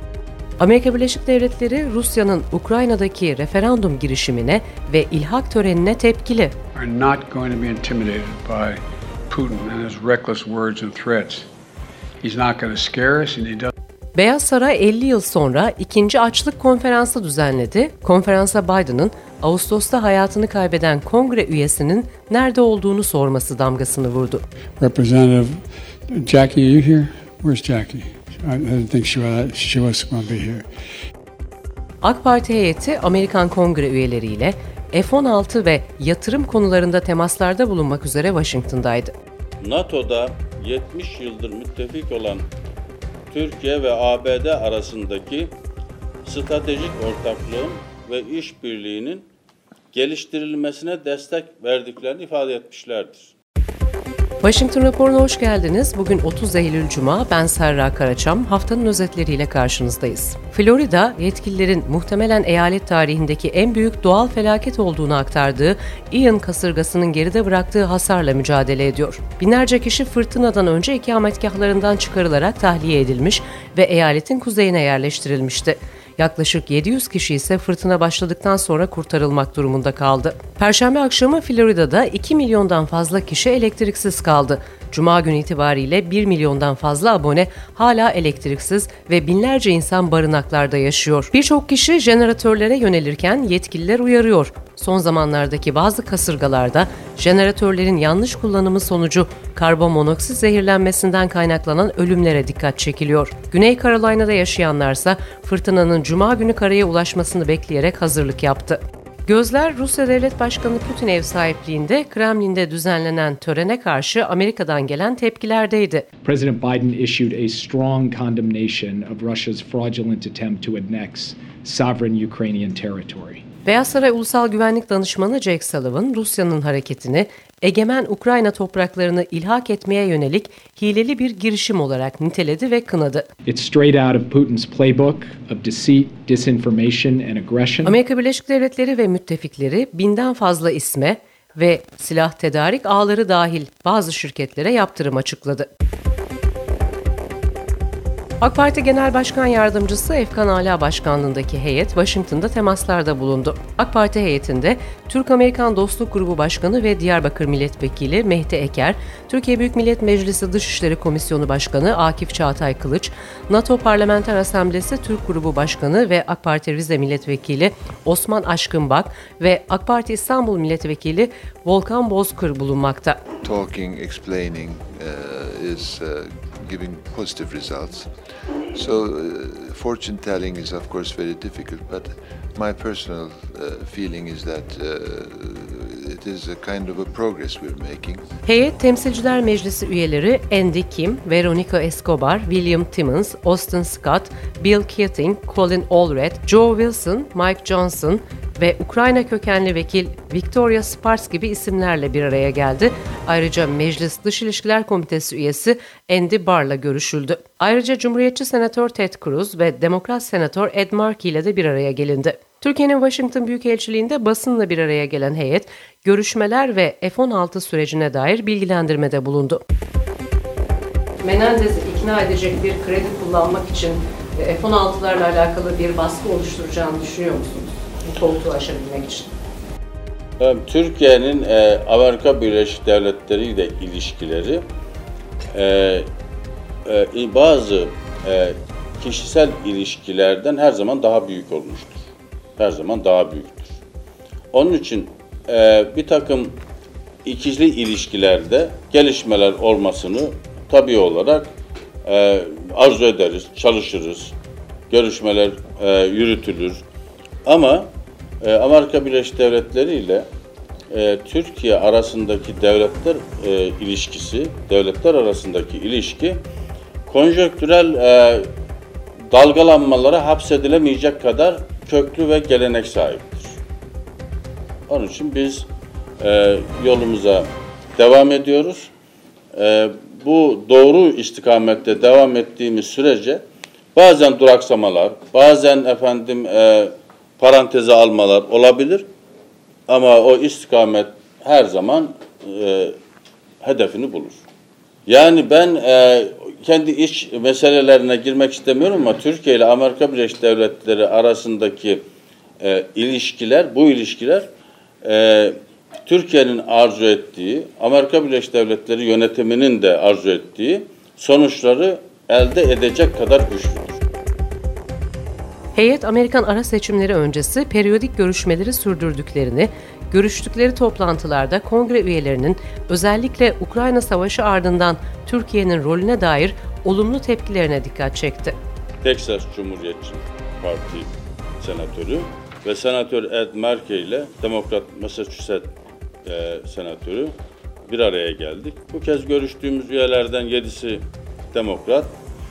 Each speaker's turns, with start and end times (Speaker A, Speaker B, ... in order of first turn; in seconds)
Speaker A: 0.6-6.5, 14.2-24.4, 32.0-39.1, 54.4-116.1, 123.7-133.3, 137.8-145.7, 148.4-173.2, 188.5-219.6, 221.2-229.3, 315.8-328.6
Speaker B: 6.8-11.5, 12.2-13.7, 24.8-25.5, 26.1-30.6
Speaker C: 39.6-42.5, 43.3-45.5, 46.2-49.2, 49.9-53.3, 230.4-234.6, 235.5-236.1, 236.9-242.0, 242.6-243.7, 244.5-246.6, 247.2-251.5, 252.0-254.3, 254.9-256.8, 257.4-257.9, 258.4-260.3, 260.9-266.4, 267.1-268.5, 269.3-273.6, 274.9-275.7, 276.2-278.9, 279.5-283.4, 283.9-289.1, 289.9-292.9, 293.6-294.4, 295.1-302.0, 302.6-304.5, 305.0-305.6, 306.1-314.0, 329.0-331.1, 331.6-335.7, 336.2-337.3, 337.9-342.1
Speaker D: 116.2-123.4, 133.5-138.0
Speaker E: 173.4-178.1, 178.7-188.2